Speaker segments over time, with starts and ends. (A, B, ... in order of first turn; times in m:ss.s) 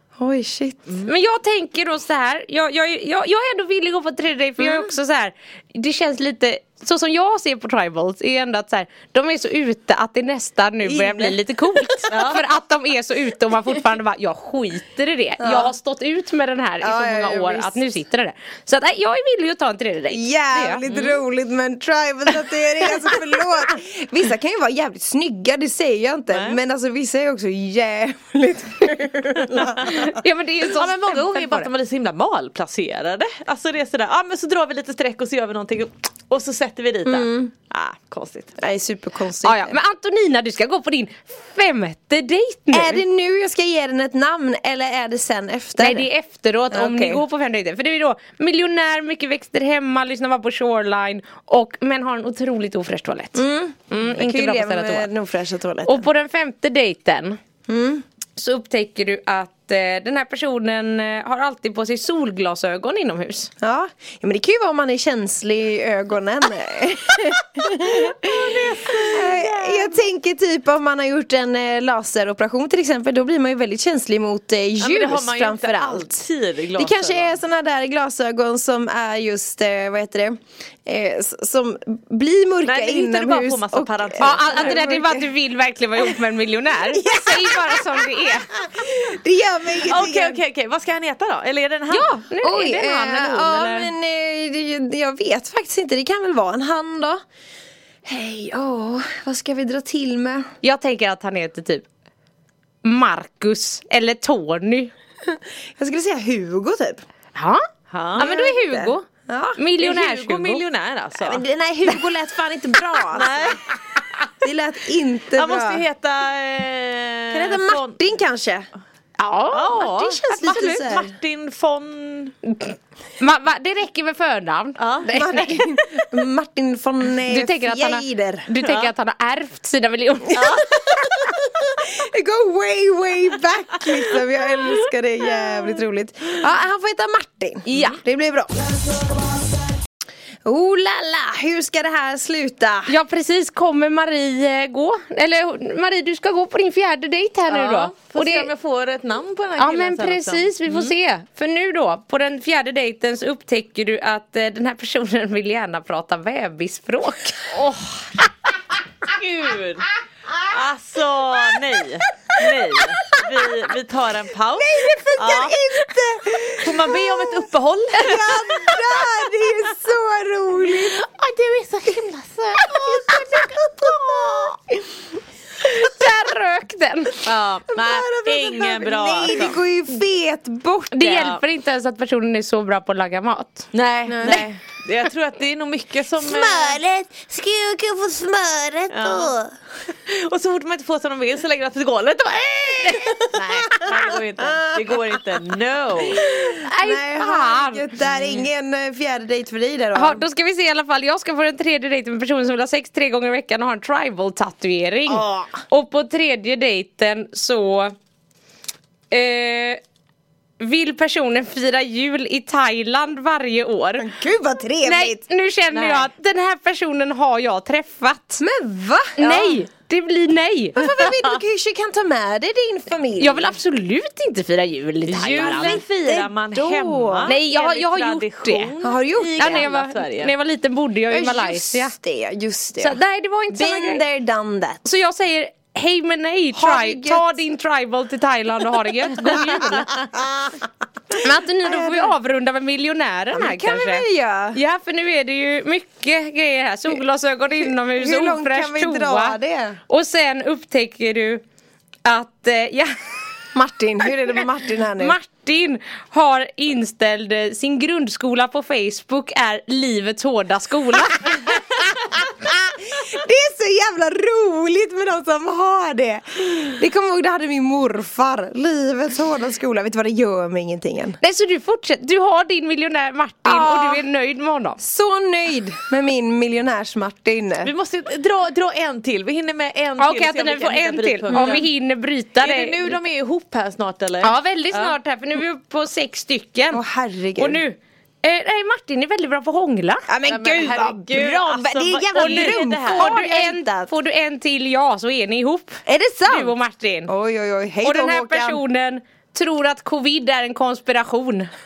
0:00.2-0:00.8 A
0:01.0-0:20.8 B
0:10.8-0:11.4 A
0:12.1-0:12.4 C
0:15.4-0:15.7 A
0:16.8-0:17.8 A
0:20.1-0:30.2 A
0:20.9-0:21.2 C
0:26.3-0:26.6 C
0:29.8-0:31.7 B
0:30.7-0:38.6 C
0:37.1-0:37.5 A
0:38.6-0:39.8 A
0:39.4-0:43.0 B
0:42.7-0:46.1 A
0:45.8-0:55.1 B
0:46.7-0:47.2 A
0:53.4-0:56.1 A
0:55.8-0:57.4 B
0:57.7-0:58.0 A
0:58.4-1:03.5 B
1:03.6-1:16.2 A
1:08.0-1:10.0 C
1:14.8-1:17.4 C
1:16.8-1:25.3 A
1:22.6-1:24.9 C
1:24.2-1:28.5 B
1:26.7-1:30.4 A
1:29.9-1:32.2 C
1:31.9-1:33.9 B
1:32.4-1:37.2 A
1:38.0-1:40.5 A
1:40.6-1:41.9 B
1:42.8-1:44.9 B
1:45.3-1:47.0 A
1:47.4-1:47.6 B
1:47.9-1:48.4 C
1:48.2-1:50.6 B
1:48.2-1:49.6 A
1:49.8-1:51.4 C
1:51.2-1:53.6 A
1:53.1-1:53.8 C
1:54.4-1:55.8 A
1:55.3-1:58.1 C
1:57.3-1:58.7 A
1:59.2-2:00.8 B
1:59.5-2:02.4 C
1:59.8-2:01.2 A
2:02.5-2:05.7 B
2:04.8-2:05.2 C
2:05.1-2:08.5 A
2:07.3-2:10.7 B
2:08.6-2:08.9 C
2:10.3-2:18.5 A
2:17.7-2:18.0 B
2:20.4-2:23.0 A
2:22.9-2:28.5 B
2:27.5-2:31.0 C
2:29.6-2:38.3 B
2:39.1-2:39.9 C
2:40.4-2:45.6 C
2:44.6-2:47.4 A
2:46.6-2:48.8 C
2:48.0-2:51.0 A
2:50.7-2:54.5 C
2:52.8-2:54.8 A
2:55.7-2:57.2 B
2:57.2-2:59.6 C
2:57.7-3:01.3 A
3:00.9-3:03.7 B
3:01.0-3:01.4 C
3:03.7-3:06.8 C
3:04.1-3:04.5 A
3:06.2-3:09.5 A
3:08.9-3:09.4 C
3:09.9-3:16.3 C
3:12.8-3:14.8 A
3:13.4-3:13.8 B
3:16.1-3:20.2 A
3:16.5-3:17.9 B
3:18.0-3:18.5 C
3:19.9-3:27.9 B
3:25.1-3:25.6 A
3:29.1-3:29.8 B
3:30.6-3:34.1 B
3:34.0-3:35.2 A
3:34.8-3:38.4 B
3:38.4-3:39.6 A
3:39.2-3:41.0 B
3:40.8-3:43.6 A
3:43.2-3:45.8 B
3:45.1-3:50.3 C
3:45.3-3:47.3 A
3:47.3-3:48.7 B
3:48.8-3:49.7 A
3:49.4-3:51.9 B
3:51.1-3:54.8 A
3:52.8-3:54.0 B
3:54.8-3:59.9 B
3:56.5-3:57.4 A
3:59.2-4:00.5 A
4:01.2-4:11.4 B
4:01.6-4:02.1 A
4:03.3-4:04.6 A
4:07.6-4:09.8 A
4:12.0-4:13.0 B
4:13.6-4:15.2 A
4:15.0-4:21.5 B
4:21.3-4:21.6 A
4:22.4-4:31.2 A
4:31.2-4:34.8 B
4:33.4-4:34.0 A
4:34.8-4:37.7 A
4:37.6-4:41.7 C
4:40.0-4:42.9 B
4:41.3-4:41.7 A
4:42.4-4:45.0 C
4:44.2-4:46.8 B
4:46.7-4:47.6 A
4:47.4-4:50.1 B
4:50.1-4:53.9 A
4:50.3-4:53.2 C
4:52.1-4:57.1 B
4:55.9-4:56.6 A
4:57.1-4:58.6 A
4:57.8-5:01.5 B